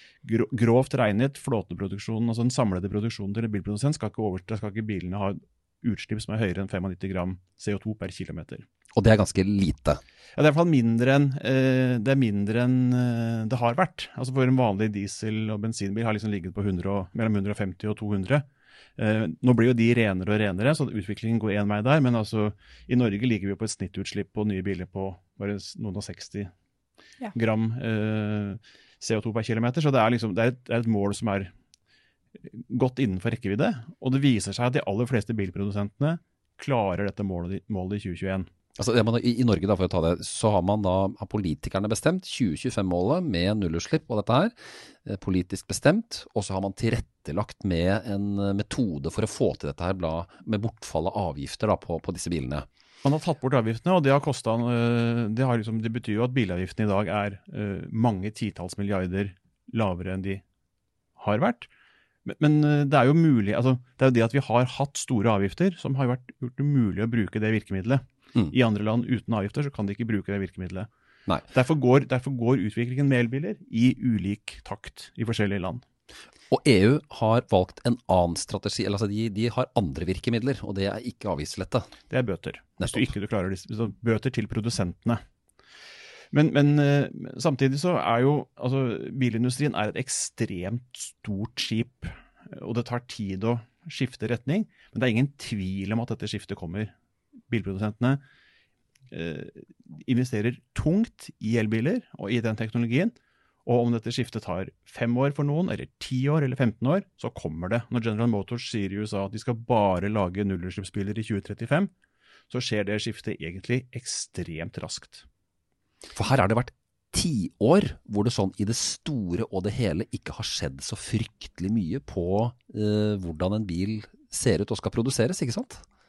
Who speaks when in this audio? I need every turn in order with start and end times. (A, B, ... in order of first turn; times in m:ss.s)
0:00.2-0:08.6 A
0:09.0-0:10.0 B
0:10.4-0:18.4 A
0:19.0-0:26.5 A
0:27.3-0:31.5 A
0:32.4-0:38.5 A
0:38.8-0:52.7 B
0:53.0-1:00.4 A
1:01.2-1:01.7 A
1:02.2-1:10.9 A
1:11.5-1:15.8 A
1:16.5-1:21.9 B
1:22.1-1:25.2 A
1:22.8-1:23.1 B
1:26.3-1:36.9 A
1:37.5-1:38.2 A
1:39.1-1:43.1 A
1:43.6-1:51.9 A
1:52.5-1:55.3 A
1:56.2-2:05.8 B